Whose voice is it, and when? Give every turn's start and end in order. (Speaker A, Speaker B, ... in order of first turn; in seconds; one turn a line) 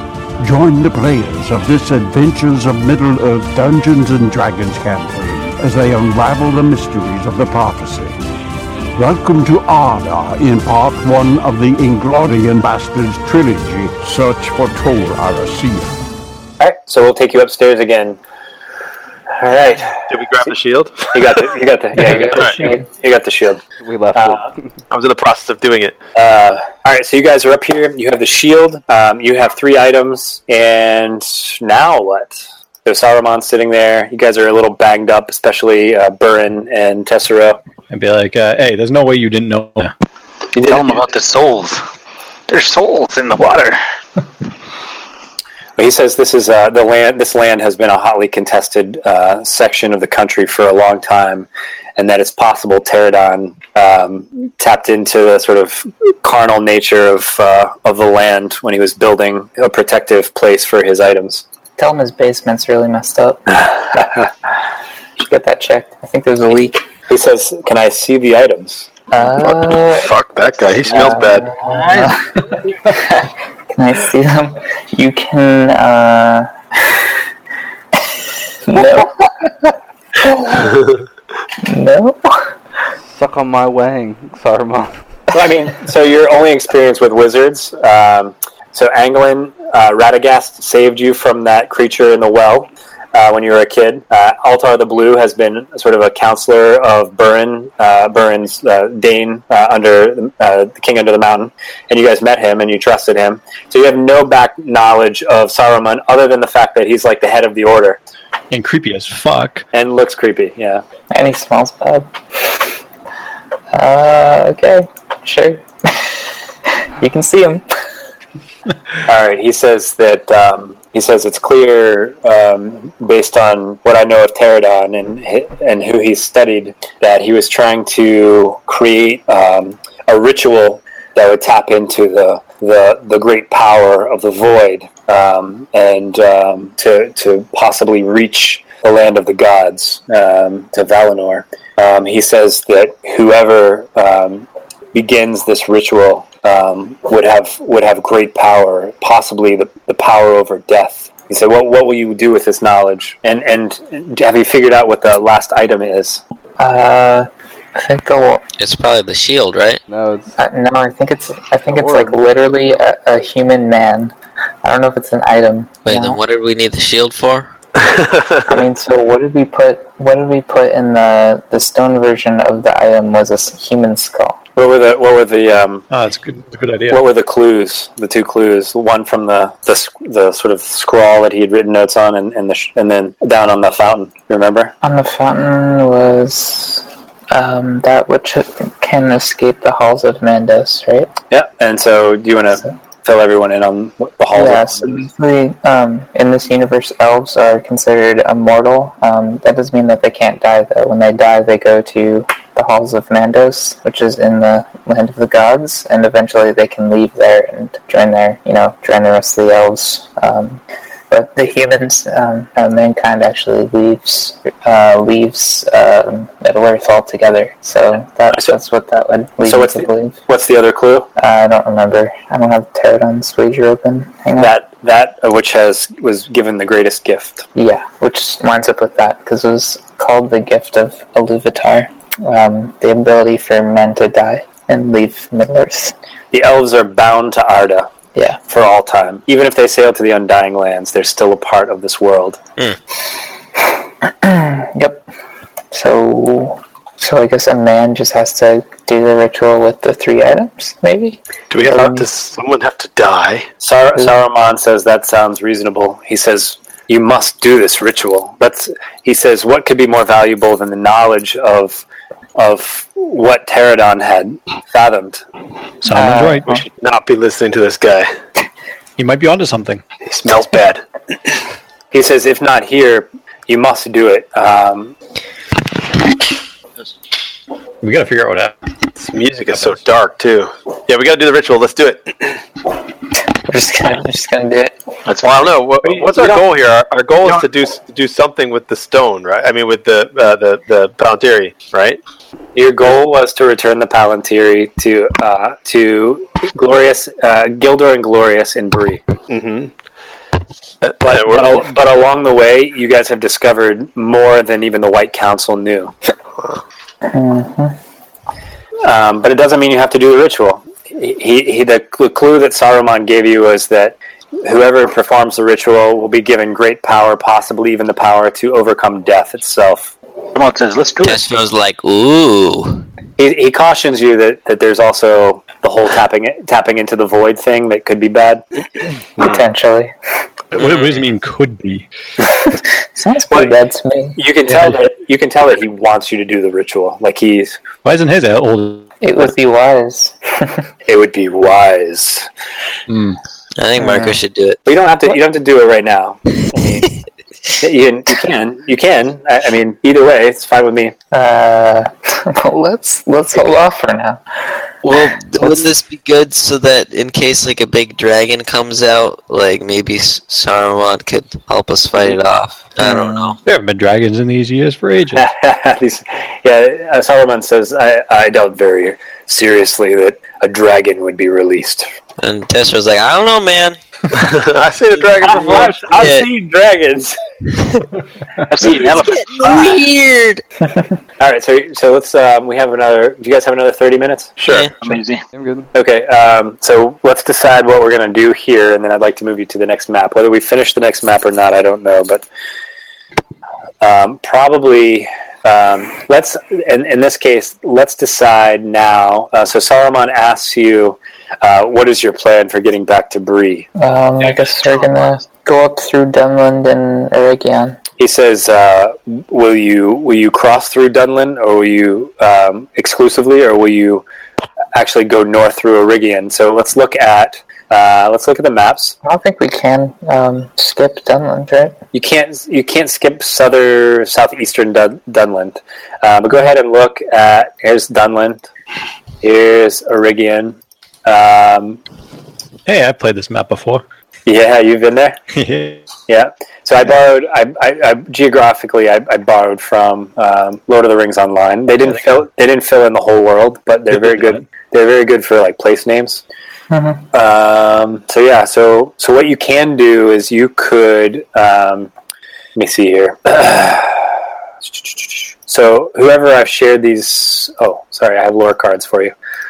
Speaker A: 0.4-8.2
Speaker A: 9.0-16.0
Speaker B: 16.6-18.2
Speaker B: 19.4-20.1
Speaker C: 20.1-21.5
Speaker B: 21.1-23.6
Speaker D: 22.0-22.8
Speaker E: 23.8-24.6
Speaker B: 24.1-24.5
Speaker C: 24.9-25.9
Speaker B: 26.1-37.6
Speaker F: 37.9-39.9
Speaker B: 40.5-41.0
Speaker G: 40.6-41.8
Speaker G: 42.5-43.8
Speaker B: 43.4-43.7
Speaker B: 45.8-61.4
Speaker D: 61.8-63.6
Speaker B: 63.9-64.2
Speaker D: 65.2-66.8
Speaker B: 67.1-68.9
Speaker D: 69.1-70.1
Speaker C: 69.2-71.8
Speaker D: 70.8-72.3
Speaker D: 72.9-76.5
Speaker D: 78.7-80.7
Speaker D: 81.6-82.4
Speaker E: 83.1-84.9
Speaker B: 85.3-108.0
Speaker F: 108.5-109.7
Speaker B: 109.7-110.8
Speaker D: 111.1-112.1
Speaker D: 113.7-116.1
Speaker D: 117.0-117.7
Speaker B: 119.1-156.2
Speaker D: 156.6-158.4
Speaker H: 158.6-159.8
Speaker E: 159.9-160.4
Speaker D: 160.4-166.2
Speaker E: 161.7-162.2
Speaker H: 165.9-167.5
Speaker C: 167.8-168.4
Speaker D: 168.5-174.4
Speaker B: 174.6-175.9
Speaker F: 175.9-177.0
Speaker B: 176.9-184.7
Speaker D: 184.8-191.1
Speaker B: 191.3-195.1
Speaker D: 194.3-220.2
Speaker B: 219.5-221.1
Speaker D: 221.2-224.5
Speaker B: 224.4-227.5
Speaker D: 227.6-235.9
Speaker B: 236.3-237.9
Speaker B: 238.5-242.4
Speaker D: 244.2-245.0
Speaker D: 245.7-252.1
Speaker C: 251.5-253.5
Speaker B: 253.6-261.9
Speaker B: 262.4-265.2
Speaker F: 265.8-266.5
Speaker D: 265.9-266.6
Speaker C: 266.7-268.1
Speaker F: 269.0-269.8
Speaker C: 270.1-270.8
Speaker B: 271.9-274.9
Speaker F: 277.8-278.6
Speaker C: 279.1-282.3
Speaker F: 279.4-279.8
Speaker D: 283.5-284.8
Speaker G: 285.1-285.4
Speaker C: 285.2-292.0
Speaker B: 285.9-286.4
Speaker B: 292.6-299.0
Speaker C: 299.3-299.7
Speaker C: 300.8-301.7
Speaker B: 301.0-305.9
Speaker D: 307.1-307.8
Speaker B: 308.8-319.9
Speaker G: 320.3-321.2
Speaker H: 321.0-322.9
Speaker B: 323.2-328.4
Speaker D: 329.2-329.9
Speaker C: 330.5-331.0
Speaker F: 330.5-331.9
Speaker D: 332.8-334.2
Speaker B: 334.2-337.6
Speaker F: 334.5-334.8
Speaker F: 337.8-338.9
Speaker D: 339.0-340.6
Speaker B: 340.9-342.3
Speaker F: 342.9-343.2
Speaker H: 343.6-344.6
Speaker D: 343.8-344.2
Speaker B: 344.7-346.9
Speaker B: 347.6-350.9
Speaker D: 351.1-354.2
Speaker H: 354.8-363.4
Speaker D: 355.4-355.6
Speaker D: 362.8-363.4
Speaker F: 363.4-365.3
Speaker B: 365.1-371.9
Speaker H: 372.2-373.8
Speaker C: 374.1-375.8
Speaker B: 375.2-377.2
Speaker H: 375.9-376.3
Speaker G: 378.5-379.7
Speaker H: 378.6-380.4
Speaker B: 381.2-384.3
Speaker H: 384.4-384.7
Speaker G: 384.6-385.2
Speaker E: 385.3-385.7
Speaker B: 385.7-392.2
Speaker B: 393.8-403.7
Speaker D: 403.8-407.8
Speaker B: 408.0-414.0
Speaker B: 414.8-419.0
Speaker D: 419.0-421.8
Speaker B: 421.9-428.4
Speaker B: 429.2-431.8
Speaker F: 432.7-433.8
Speaker B: 434.3-435.2
Speaker F: 435.3-435.9
Speaker B: 436.1-446.2
Speaker F: 444.0-444.4
Speaker D: 446.7-447.0
Speaker B: 447.1-451.9
Speaker B: 452.6-454.1
Speaker B: 454.8-459.1